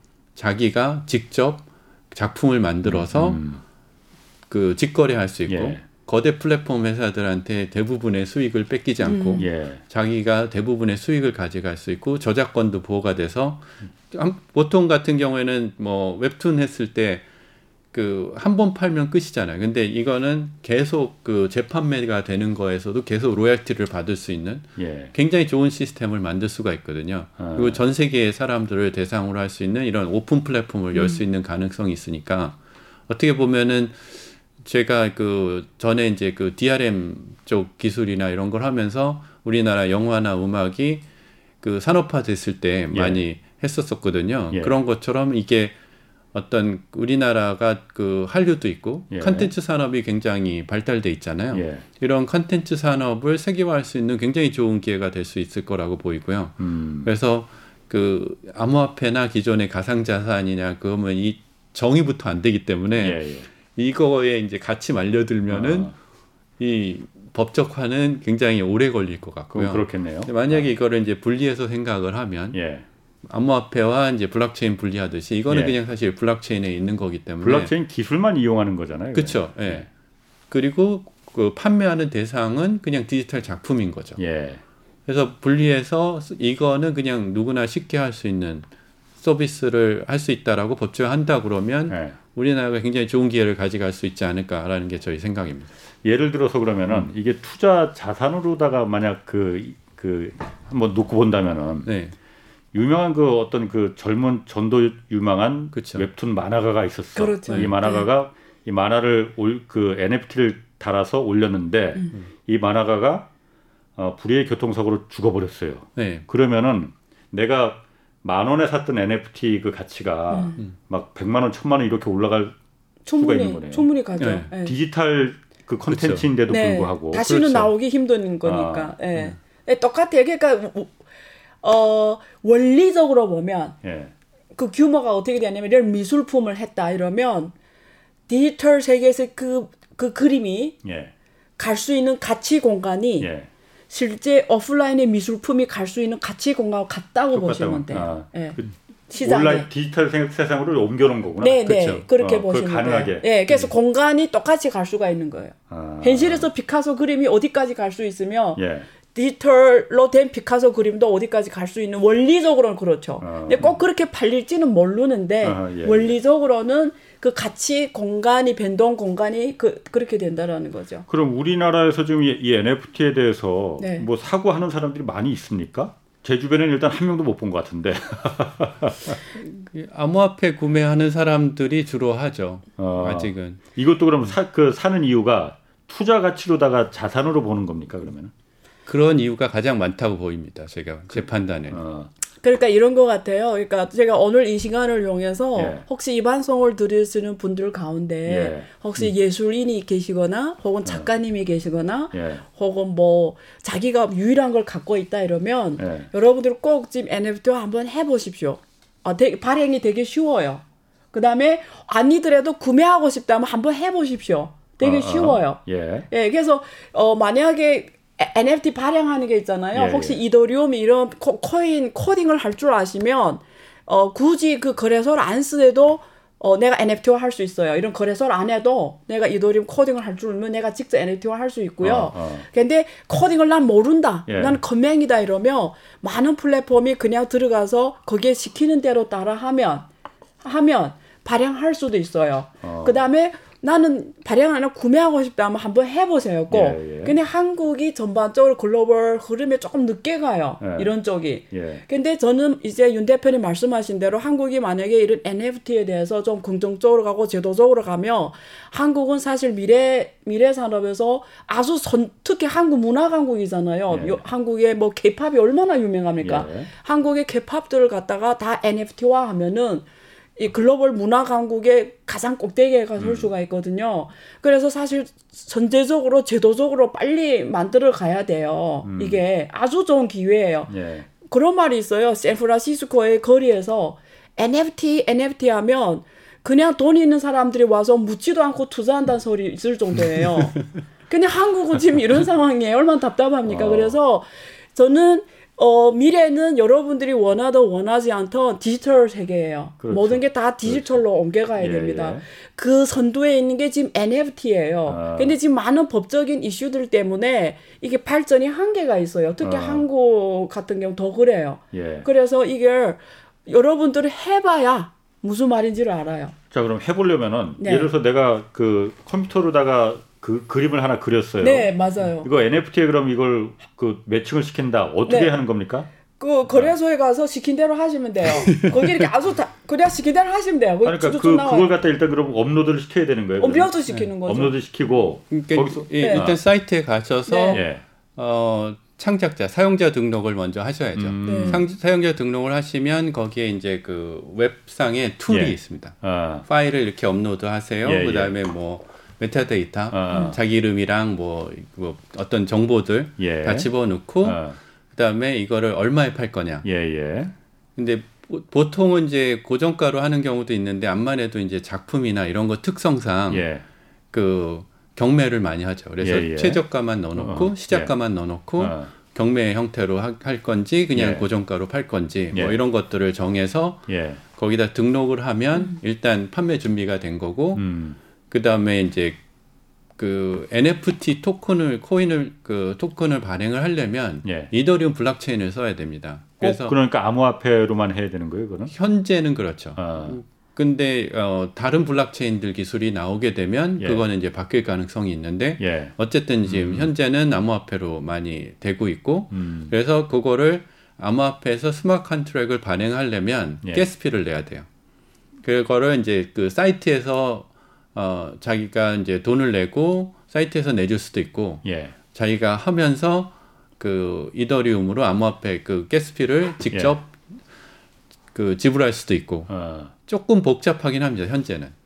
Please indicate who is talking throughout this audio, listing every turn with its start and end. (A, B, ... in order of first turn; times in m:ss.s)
0:00.4-0:03.4 A
0:02.8-0:03.6 B
0:04.5-0:17.2 A
0:05.5-0:05.8 B
0:09.0-0:09.4 C
0:09.4-0:09.8 B
0:17.9-0:32.6 A
0:24.8-0:25.1 B
0:27.4-0:27.8 B
0:33.1-0:41.0 A
0:41.6-0:45.8 A
0:42.9-0:43.2 B
0:46.3-1:05.9 A
0:49.1-0:49.5 B
0:51.5-0:51.8 B
0:56.6-0:57.1 B
1:03.0-1:03.5 B
1:05.5-1:05.9 B
1:06.6-1:12.6 A
1:09.5-1:10.7 B
1:12.5-1:12.8 B
1:13.3-1:17.7 A
1:15.5-1:15.7 B
1:17.4-1:19.9 B
1:19.1-1:19.9 A
1:20.5-1:24.2 A
1:24.2-1:24.6 B
1:25.1-1:28.6 A
1:29.2-1:35.7 A
1:31.9-1:32.2 B
1:36.0-1:41.9 B
1:41.8-1:42.1 A
1:42.7-1:53.3 B
1:45.7-1:46.0 A
1:47.2-1:48.1 C
1:54.0-2:02.5 B
1:56.0-1:56.2 A
2:00.3-2:00.6 C
2:03.0-2:04.7 C
2:03.2-2:03.8 B
2:04.2-2:04.5 A
2:04.6-2:07.3 B
2:05.9-2:06.2 A
2:06.5-2:10.9 C
2:07.2-2:07.7 A
2:08.4-2:08.9 B
2:11.6-2:13.8 C
2:13.8-2:14.1 B
2:14.6-2:17.5 C
2:18.3-2:20.8 C
2:20.8-2:21.1 B
2:21.6-2:23.3 C
2:23.2-2:23.5 B
2:23.9-2:28.6 C
2:27.3-2:33.3 B
2:29.1-2:29.7 C
2:31.4-2:38.6 C
2:31.7-2:32.0 A
2:35.7-2:36.5 B
2:38.6-2:38.9 B
2:39.1-2:51.0 C
2:43.2-2:43.8 B
2:45.4-2:46.1 B
2:51.1-2:59.2 B
2:53.8-2:54.1 C
2:59.4-3:03.6 A
3:02.8-3:08.3 B
3:08.8-3:11.8 A
3:11.7-3:12.1 B
3:12.4-3:59.9 C
3:15.6-3:15.8 B
3:18.2-3:18.7 B
3:22.1-3:22.4 B
3:25.8-3:26.1 B
3:34.8-3:36.1 B
3:39.7-3:40.2 B
3:51.8-3:52.5 B
3:54.3-3:54.6 B
4:00.4-4:29.8 C
4:02.6-4:03.0 B
4:06.5-4:07.2 B
4:10.6-4:10.9 B
4:11.5-4:11.8 B
4:23.9-4:24.2 B
4:26.2-4:26.7 B
4:30.4-5:16.3 C
4:33.0-4:33.3 B
4:38.8-4:39.2 B
4:40.7-4:41.1 B
4:53.4-4:54.0 B
4:59.8-5:01.0 B
5:01.6-5:02.2 B
5:04.9-5:05.4 B
5:09.4-5:09.8 B
5:11.7-5:12.1 B
5:16.5-5:21.7 B
5:17.6-5:17.9 C
5:21.4-5:22.3 C
5:22.2-5:25.9 B
5:25.0-5:25.3 C
5:26.2-5:31.7 C
5:30.8-5:36.4 B
5:33.4-5:34.6 C
5:35.3-5:54.4 A
5:36.0-5:36.3 C
5:37.3-5:37.6 C
5:37.5-5:37.8 B
5:40.9-5:41.7 B
5:41.2-5:41.6 C
5:45.3-5:46.4 B
5:47.8-5:48.3 B
5:49.9-5:50.4 B
5:53.2-5:53.7 B
5:54.2-5:54.6 B
5:54.9-5:56.6 A
5:56.6-5:57.3 B
5:57.8-6:03.4 A
6:03.3-6:03.6 B
6:04.1-6:17.6 A
6:06.0-6:06.6 B
6:07.2-6:07.9 B
6:08.6-6:08.9 B
6:10.9-6:11.2 B
6:12.3-6:12.6 B
6:13.9-6:14.2 B
6:17.6-6:18.0 B
6:18.3-6:19.2 A
6:20.0-6:26.8 A
6:24.2-6:24.5 B
6:26.4-6:28.7 B
6:28.7-6:44.6 A
6:29.8-6:30.2 B
6:33.8-6:34.0 B
6:35.6-6:36.9 B
6:39.3-6:39.7 B
6:45.4-6:57.1 A
6:51.6-6:51.9 B
6:56.7-6:57.0 B
6:58.3-6:59.5 A
6:59.5-6:59.9 B
7:00.0-7:01.7 A